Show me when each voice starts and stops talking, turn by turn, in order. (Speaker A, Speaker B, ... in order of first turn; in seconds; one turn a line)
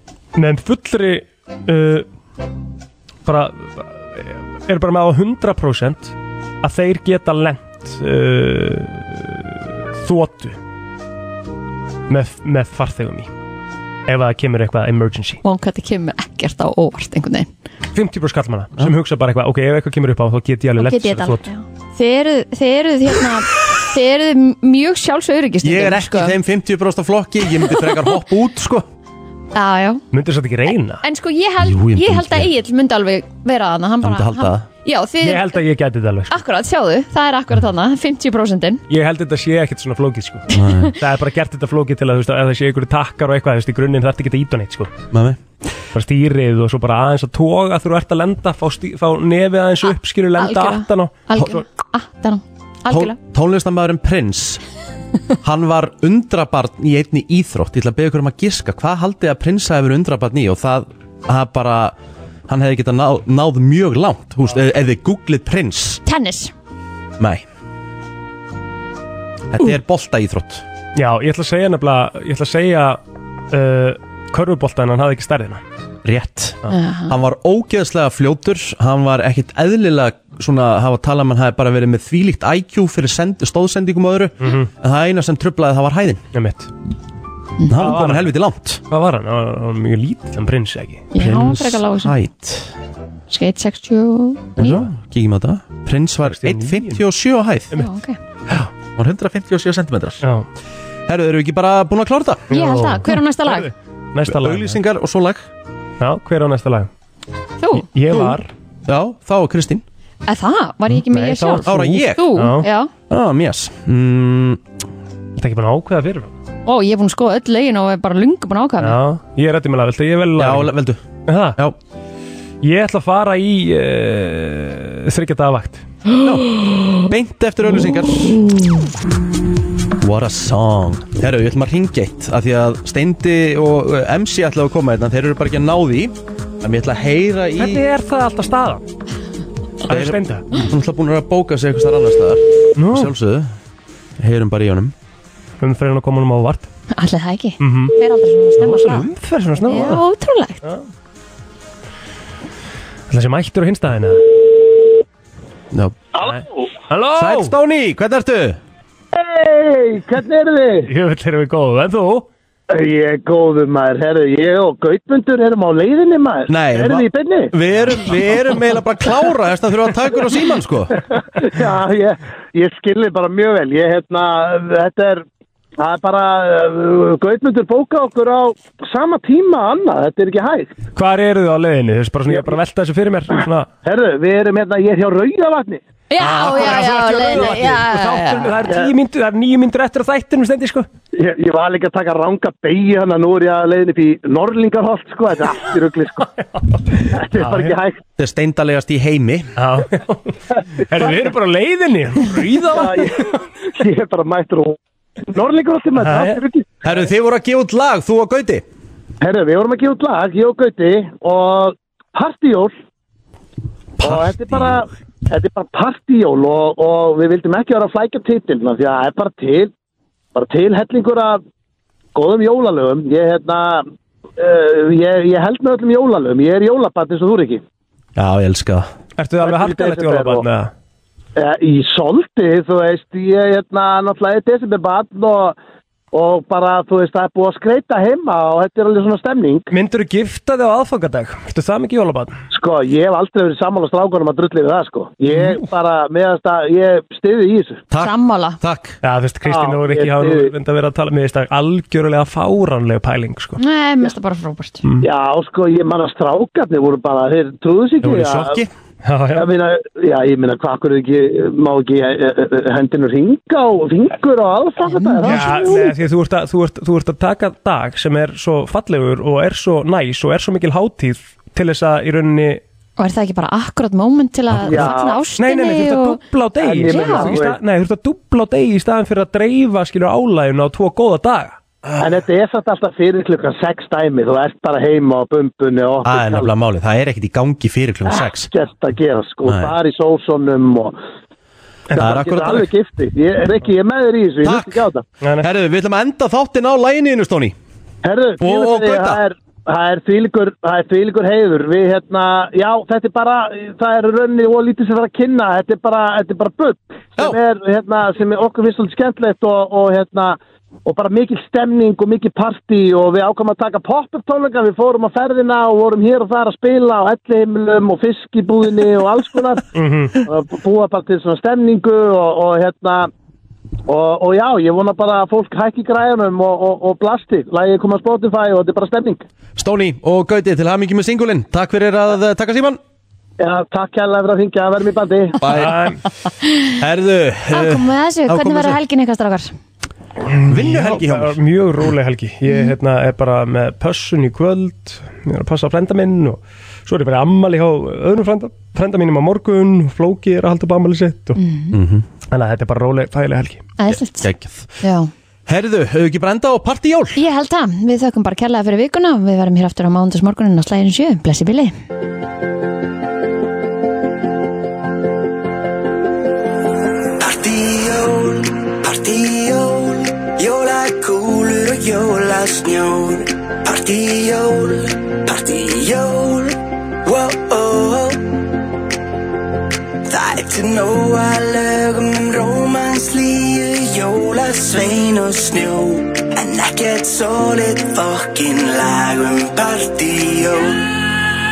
Speaker A: 0.3-2.1
Speaker A: 3.3-10.6
Speaker A: 12.1-13.3
Speaker A: 14.1-15.4
Speaker B: 15.4-17.5
Speaker A: 17.9-21.5
Speaker B: 20.8-26.4
Speaker C: 25.6-28.9
Speaker B: 29.5-30.0
Speaker A: 30.1-31.0
Speaker B: 31.0-35.6
Speaker C: 31.6-32.5
Speaker C: 34.0-34.7
Speaker A: 35.2-36.4
Speaker B: 36.3-38.8
Speaker A: 38.9-45.0
Speaker C: 40.5-41.0
Speaker C: 45.1-45.4
Speaker A: 45.9-51.6
Speaker B: 50.4-53.2
Speaker C: 52.9-54.6
Speaker C: 55.4-62.0
Speaker C: 62.5-66.0
Speaker B: 66.1-66.5
Speaker C: 67.2-67.4
Speaker C: 69.5-70.7
Speaker A: 71.0-73.0
Speaker A: 73.5-75.6
Speaker C: 76.0-86.2
Speaker B: 76.7-77.2
Speaker A: 84.4-84.7
Speaker A: 86.3-86.7
Speaker B: 87.6-87.8
Speaker C: 87.7-88.8
Speaker A: 87.7-88.4
Speaker A: 88.9-91.1
Speaker B: 91.1-92.2
Speaker C: 91.2-92.7
Speaker B: 93.3-94.8
Speaker C: 94.6-97.7
Speaker A: 94.6-94.9
Speaker A: 96.2-97.0
Speaker B: 97.8-98.2
Speaker C: 98.5-100.2
Speaker C: 101.1-102.5
Speaker A: 102.5-104.8
Speaker B: 102.5-103.7
Speaker C: 104.3-105.5
Speaker A: 106.0-106.9
Speaker B: 107.6-107.9
Speaker A: 107.8-108.5
Speaker C: 108.1-109.8
Speaker B: 110.3-112.9
Speaker A: 111.0-112.7
Speaker C: 111.6-112.4
Speaker C: 113.1-114.6
Speaker A: 115.4-116.3
Speaker B: 116.7-119.0
Speaker A: 118.8-120.7
Speaker C: 120.4-121.0
Speaker A: 121.3-121.6
Speaker A: 122.6-125.8
Speaker C: 126.2-128.5
Speaker C: 130.0-137.8
Speaker A: 137.6-138.8
Speaker A: 139.8-140.5
Speaker C: 139.9-143.5
Speaker A: 142.8-143.1
Speaker C: 144.2-144.9
Speaker A: 145.6-146.7
Speaker B: 146.9-149.1
Speaker A: 147.6-147.9
Speaker A: 148.6-150.0
Speaker B: 149.6-150.6
Speaker A: 153.1-154.2
Speaker D: 156.1-156.7
Speaker A: 156.2-157.5
Speaker C: 157.2-158.6
Speaker D: 159.1-160.9
Speaker A: 160.9-162.3
Speaker D: 162.7-167.5
Speaker C: 166.5-171.0
Speaker D: 171.4-175.2
Speaker D: 175.8-180.7
Speaker A: 180.9-183.7
Speaker D: 182.3-182.5
Speaker D: 183.8-185.8
Speaker B: 186.1-188.6
Speaker A: 186.2-190.9
Speaker D: 188.7-188.9
Speaker D: 191.1-196.3
Speaker D: 197.1-198.0
Speaker A: 197.3-197.8
Speaker C: 198.2-199.6
Speaker A: 199.6-203.3
Speaker D: 202.7-206.8
Speaker A: 206.0-206.4
Speaker C: 206.8-208.7
Speaker D: 209.2-212.7
Speaker C: 214.0-214.8
Speaker D: 214.0-219.7
Speaker D: 220.3-221.4
Speaker D: 222.2-223.9
Speaker D: 224.4-227.6
Speaker C: 228.2-228.9
Speaker A: 229.2-230.7
Speaker D: 229.4-230.4
Speaker D: 231.4-235.6
Speaker D: 236.1-239.7
Speaker A: 239.7-242.4
Speaker D: 242.5-247.8
Speaker C: 247.9-249.0
Speaker B: 248.0-248.6
Speaker A: 249.0-253.6
Speaker D: 249.4-250.5
Speaker B: 253.6-254.8
Speaker D: 255.0-258.6
Speaker C: 258.0-258.7
Speaker A: 259.0-259.5
Speaker D: 259.4-265.9
Speaker B: 264.9-265.9
Speaker A: 265.2-272.6
Speaker B: 273.0-276.2
Speaker A: 274.6-281.6
Speaker D: 274.7-275.2
Speaker D: 276.6-277.6
Speaker B: 276.8-277.4
Speaker D: 282.0-286.5
Speaker C: 286.1-288.5
Speaker D: 288.1-291.0
Speaker C: 289.4-289.8
Speaker D: 291.9-295.1
Speaker C: 292.0-292.7
Speaker C: 294.4-294.8
Speaker C: 295.4-297.6
Speaker D: 298.0-319.6
Speaker C: 298.4-299.2
Speaker A: 319.8-320.1
Speaker D: 320.2-323.1
Speaker D: 323.9-329.2
Speaker C: 329.6-332.8
Speaker D: 333.4-335.4
Speaker C: 335.4-335.8
Speaker A: 335.5-336.0
Speaker C: 336.8-338.8
Speaker B: 337.5-339.5
Speaker A: 340.3-351.4
Speaker C: 340.5-341.4
Speaker B: 351.4-351.8
Speaker C: 351.7-352.1
Speaker A: 352.3-353.7
Speaker B: 353.8-354.3
Speaker C: 353.9-354.7
Speaker B: 354.8-355.1
Speaker C: 355.5-357.2
Speaker B: 357.2-361.7
Speaker E: 367.2-378.4
Speaker E: 380.1-390.9